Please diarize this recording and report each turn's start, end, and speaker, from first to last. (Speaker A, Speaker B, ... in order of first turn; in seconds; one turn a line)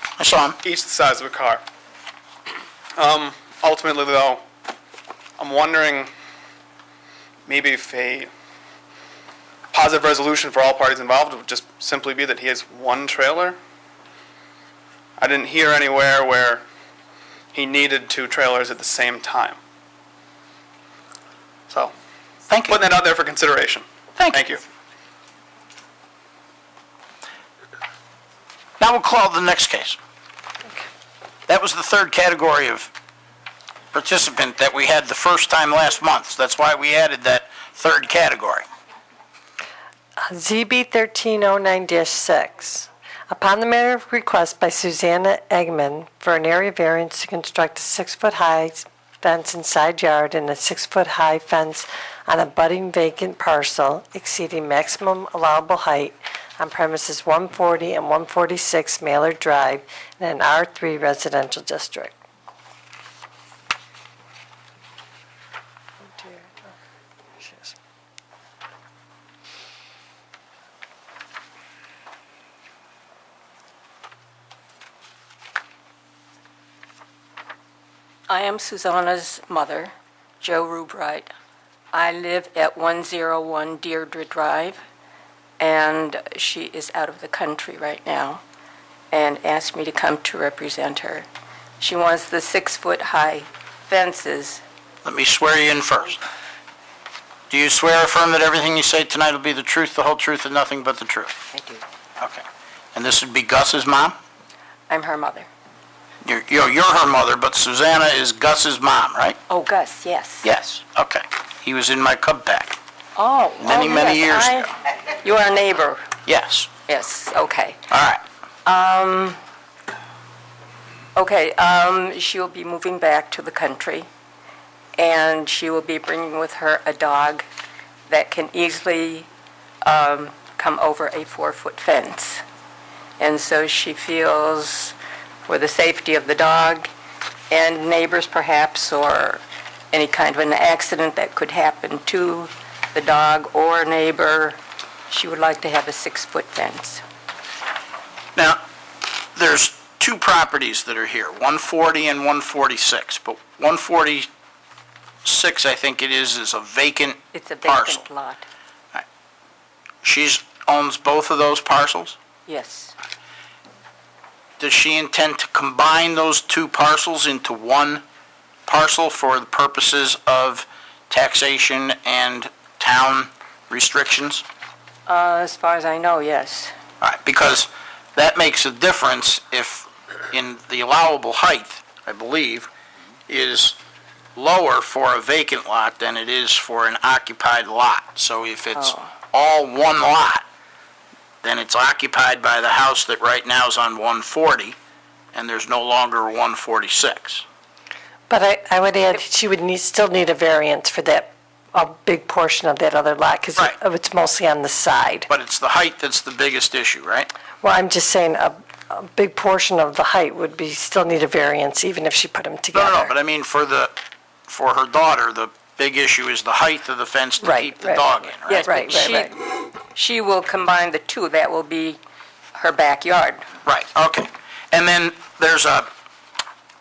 Speaker A: 0.2-0.6
Speaker B: 0.6-1.6
Speaker B: 3.0-4.4
Speaker B: 5.4-6.1
Speaker B: 7.5-8.3
Speaker B: 9.7-13.6
Speaker B: 15.2-16.6
Speaker B: 17.5-19.6
Speaker A: 22.5-22.8
Speaker B: 22.7-24.6
Speaker A: 24.2-24.4
Speaker A: 28.8-30.0
Speaker A: 31.5-32.9
Speaker A: 33.9-38.6
Speaker C: 40.2-62.2
Speaker C: 66.1-66.7
Speaker C: 67.4-67.7
Speaker D: 78.3-81.3
Speaker D: 81.9-84.8
Speaker D: 85.6-88.4
Speaker D: 89.1-91.3
Speaker D: 91.8-94.6
Speaker A: 95.0-96.2
Speaker A: 97.5-101.4
Speaker D: 101.5-101.8
Speaker A: 102.2-104.2
Speaker D: 104.9-105.5
Speaker A: 106.2-109.4
Speaker D: 109.5-110.5
Speaker A: 110.4-112.8
Speaker D: 113.2-116.1
Speaker A: 113.6-114.7
Speaker A: 116.2-116.7
Speaker D: 116.9-117.8
Speaker A: 117.9-118.2
Speaker D: 118.7-119.4
Speaker D: 121.2-124.1
Speaker D: 125.0-127.5
Speaker D: 128.1-129.3
Speaker D: 129.8-132.4
Speaker D: 133.2-136.9
Speaker D: 137.5-144.6
Speaker D: 145.1-147.0
Speaker A: 149.3-154.3
Speaker A: 155.2-158.0
Speaker D: 157.3-158.4
Speaker A: 160.0-162.2
Speaker D: 162.5-162.9
Speaker A: 164.6-168.0
Speaker A: 168.7-174.4
Speaker D: 175.1-176.7
Speaker A: 177.0-182.7
Speaker A: 183.3-183.8
Speaker A: 184.3-190.4
Speaker D: 188.8-189.1
Speaker A: 191.4-194.8
Speaker A: 195.3-197.4
Speaker C: 198.3-205.3
Speaker A: 205.3-207.3
Speaker C: 207.6-213.1
Speaker A: 212.7-213.9
Speaker A: 214.5-218.9
Speaker C: 217.4-219.3
Speaker D: 218.5-222.0
Speaker D: 222.5-223.4
Speaker A: 223.7-225.9